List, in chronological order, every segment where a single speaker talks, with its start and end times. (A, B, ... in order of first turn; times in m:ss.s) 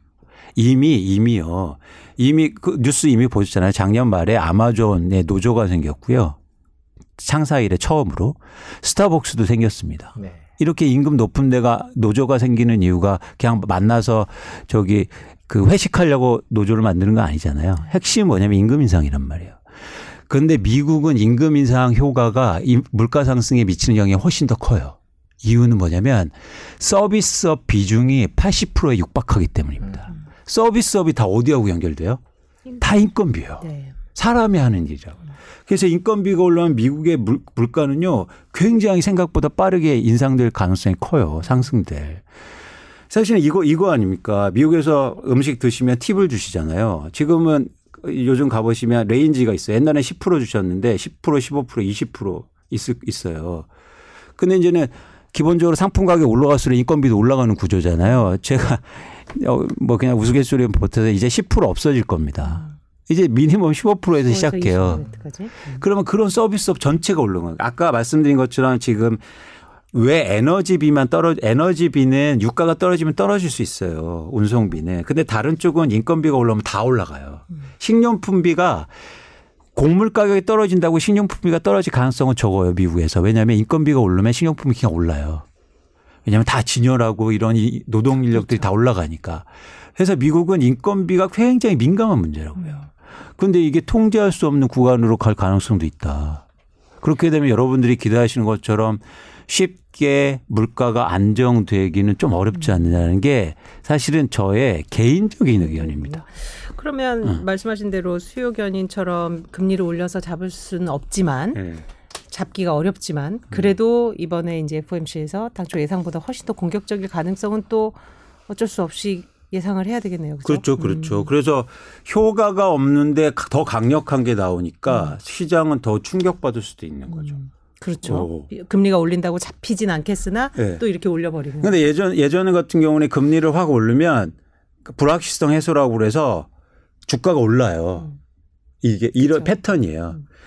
0:00.6-0:06.4 A
0:07.2-0:19.6 A
0:20.3-0:32.2 A
0:32.8-0:42.2 A
0:33.6-0:33.9 B
0:43.1-0:53.7 A
0:54.4-1:05.1 A
1:04.3-1:05.8 B
1:05.7-1:09.2 A
1:09.9-1:18.9 A
1:19.8-1:25.4 A
1:26.2-1:36.4 A
1:28.4-1:28.6 B
1:32.6-1:32.8 B
1:37.0-1:46.2 A
1:45.6-1:51.6 B
1:51.5-1:51.8 A
1:52.3-1:58.0 B
1:58.5-2:01.3 B
2:00.4-2:07.4 A
2:04.9-2:05.1 B
2:07.1-2:11.7 B
2:08.0-2:08.5 A
2:10.6-2:10.8 A
2:11.6-2:16.5 A
2:17.1-2:18.1 A
2:18.8-2:20.2 A